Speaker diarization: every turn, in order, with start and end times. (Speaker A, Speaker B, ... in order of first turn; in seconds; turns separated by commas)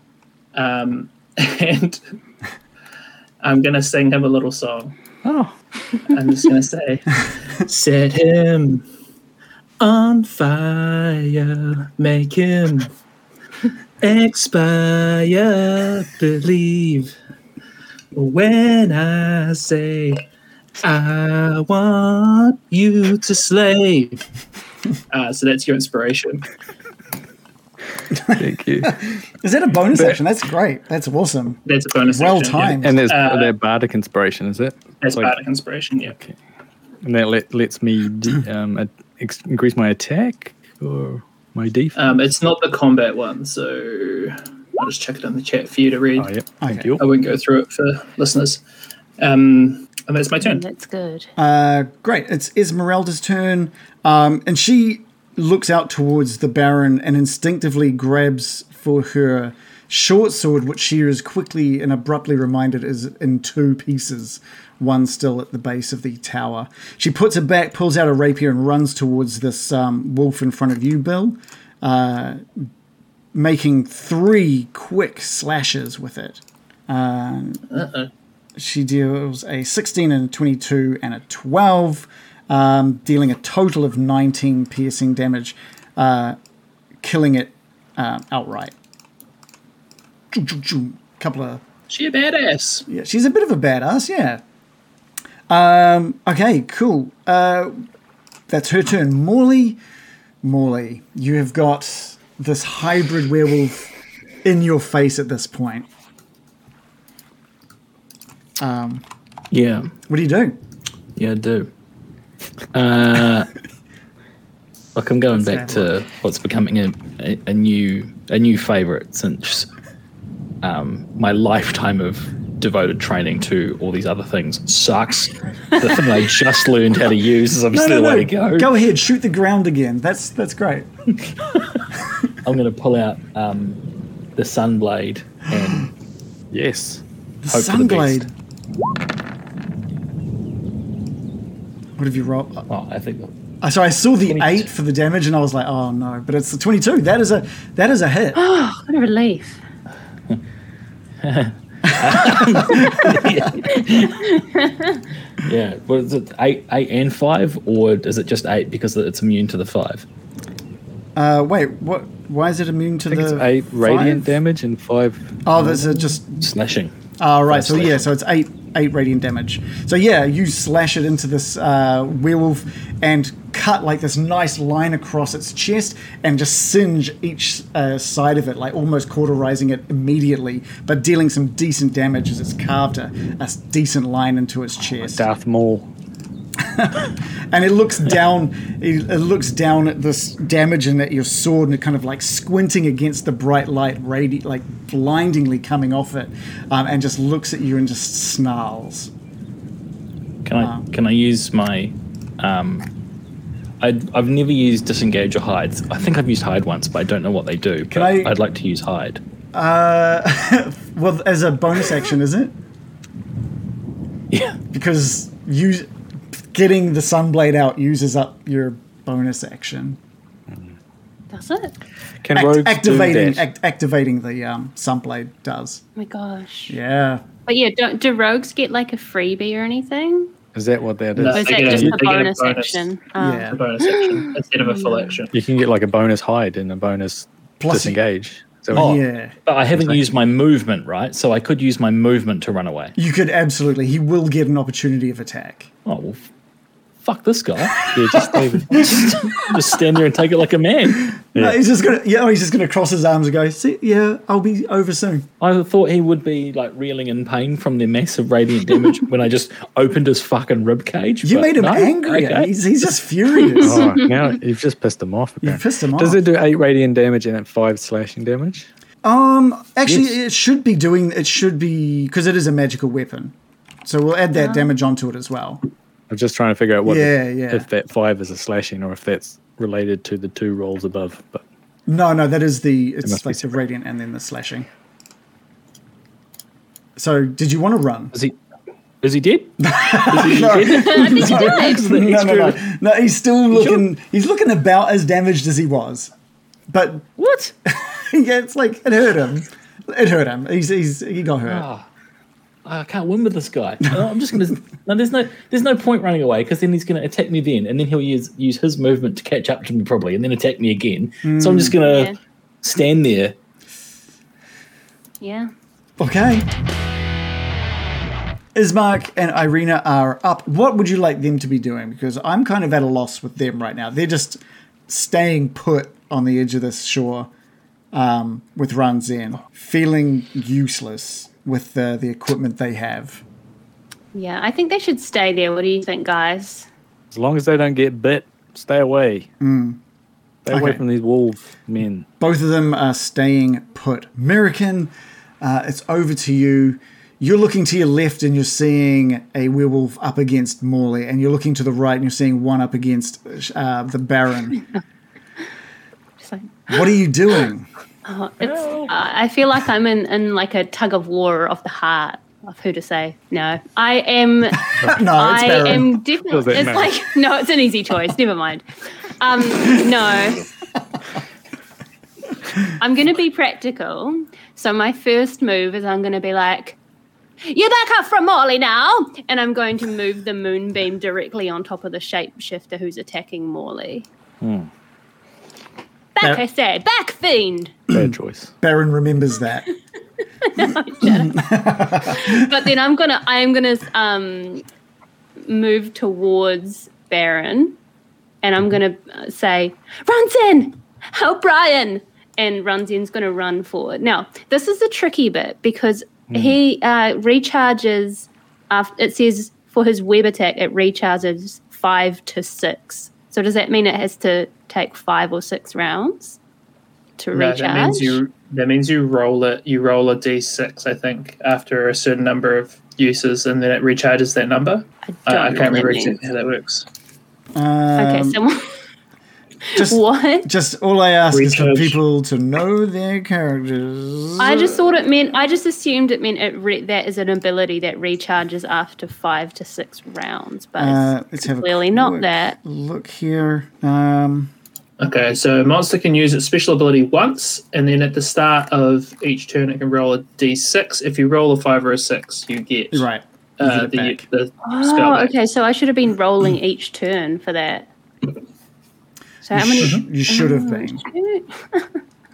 Speaker A: 0.5-2.0, Speaker A: 3.4-5.0, Speaker B: 5.2-5.5, Speaker A: 6.1-8.8, Speaker A: 9.8-12.9, Speaker A: 14.0-17.1, Speaker A: 18.1-20.2, Speaker A: 20.8-24.2, Speaker A: 25.1-26.4, Speaker C: 28.3-33.0, Speaker B: 28.3-29.0, Speaker A: 31.7-33.5, Speaker B: 32.8-35.3, Speaker A: 35.0-36.1, Speaker B: 36.1-36.4, Speaker B: 37.0-42.0, Speaker A: 42.0-46.3, Speaker B: 46.2-47.0, Speaker C: 46.6-47.0, Speaker A: 47.0-48.6, Speaker A: 49.2-50.6, Speaker D: 50.4-51.3, Speaker C: 51.4-72.7, Speaker C: 73.3-77.6, Speaker A: 77.7-78.1, Speaker C: 78.6-86.4, Speaker C: 87.0-88.7, Speaker C: 90.3-91.6, Speaker A: 91.9-92.8, Speaker C: 92.9-94.4, Speaker C: 95.5-97.8, Speaker C: 98.5-99.8, Speaker C: 100.4-103.9, Speaker C: 104.4-105.9, Speaker C: 108.6-109.0, Speaker E: 109.5-109.9, Speaker C: 110.1-110.6, Speaker E: 111.2-111.7, Speaker E: 112.7-113.5, Speaker E: 115.0-119.7, Speaker C: 115.3-116.0, Speaker E: 120.6-128.7, Speaker C: 127.7-130.9, Speaker E: 131.2-131.8, Speaker E: 132.4-133.8, Speaker E: 134.4-135.9, Speaker B: 136.5-137.0, Speaker C: 137.4-138.3, Speaker E: 137.5-138.3, Speaker C: 142.0-142.7, Speaker E: 142.7-143.3, Speaker C: 143.6-148.4, Speaker E: 144.3-144.7, Speaker D: 148.3-149.6, Speaker E: 151.2-154.4, Speaker C: 151.9-153.4, Speaker D: 153.7-155.0, Speaker E: 155.4-160.1, Speaker C: 161.2-164.4, Speaker B: 163.1-165.3, Speaker C: 165.4-166.5, Speaker E: 165.6-166.9, Speaker C: 167.2-185.3, Speaker E: 167.5-168.1, Speaker B: 185.0-185.9, Speaker C: 186.6-199.1, Speaker E: 200.4-202.9, Speaker C: 200.6-200.9, Speaker E: 203.8-209.2, Speaker C: 207.9-208.3, Speaker C: 209.5-212.6, Speaker E: 214.3-214.6, Speaker C: 214.7-220.0, Speaker D: 221.3-221.8, Speaker B: 222.2-223.4, Speaker C: 222.3-225.8, Speaker D: 226.0-226.8, Speaker C: 226.7-227.2, Speaker D: 227.5-230.3, Speaker B: 230.5-232.0, Speaker A: 231.2-232.9, Speaker D: 231.3-235.2, Speaker C: 233.2-233.6, Speaker A: 233.5-235.3, Speaker B: 235.3-238.9, Speaker C: 237.6-238.0, Speaker C: 238.7-239.3, Speaker E: 238.7-242.9, Speaker B: 239.7-240.0, Speaker C: 243.0-245.7, Speaker E: 245.8-246.3, Speaker E: 247.0-251.2, Speaker B: 247.9-248.9, Speaker C: 248.1-249.2, Speaker C: 251.3-255.3, Speaker E: 255.4-262.5, Speaker C: 261.2-263.9, Speaker D: 263.6-264.1, Speaker B: 263.6-268.7, Speaker C: 265.4-266.2, Speaker C: 269.0-273.3, Speaker E: 269.9-270.1, Speaker C: 273.9-275.6, Speaker D: 274.4-274.7, Speaker B: 276.1-281.4, Speaker C: 276.9-277.7, Speaker C: 281.9-284.7, Speaker B: 283.1-283.5, Speaker C: 287.0-288.1, Speaker E: 289.0-292.6, Speaker C: 289.6-296.1, Speaker D: 290.6-291.9, Speaker E: 293.5-293.8, Speaker C: 296.7-297.1, Speaker E: 297.2-297.5, Speaker C: 297.7-301.7, Speaker E: 301.5-301.9, Speaker E: 302.6-313.4, Speaker C: 311.2-311.8, Speaker D: 311.8-312.2, Speaker D: 315.2-315.5, Speaker C: 316.0-316.5, Speaker C: 318.6-327.3, Speaker C: 327.9-333.2, Speaker D: 334.1-336.7, Speaker B: 337.1-339.3, Speaker C: 339.4-339.8, Speaker B: 340.4-342.1, Speaker C: 340.5-340.8, Speaker C: 342.2-354.6, Speaker D: 356.2-356.8, Speaker C: 356.7-357.7, Speaker D: 358.1-368.6, Speaker E: 358.4-358.9, Speaker C: 364.8-365.9, Speaker B: 366.3-366.9, Speaker D: 369.2-370.5, Speaker D: 372.8-376.8, Speaker D: 377.4-384.1, Speaker B: 384.4-384.7, Speaker D: 386.2-387.7, Speaker C: 387.9-389.7, Speaker B: 387.9-388.5, Speaker D: 390.4-391.4, Speaker C: 391.0-392.5, Speaker D: 392.0-394.6, Speaker D: 395.4-397.8, Speaker D: 398.4-416.4, Speaker B: 406.3-406.6, Speaker D: 417.2-418.2, Speaker A: 417.3-426.9, Speaker D: 425.1-426.2, Speaker C: 427.6-428.4, Speaker D: 428.0-428.7, Speaker D: 429.7-430.5, Speaker C: 429.8-434.9, Speaker A: 431.3-432.0, Speaker D: 434.4-442.6, Speaker C: 440.8-444.5, Speaker A: 445.0-453.1, Speaker C: 452.9-454.2, Speaker A: 453.6-455.4, Speaker D: 454.6-457.9, Speaker D: 459.4-462.0, Speaker C: 459.5-461.0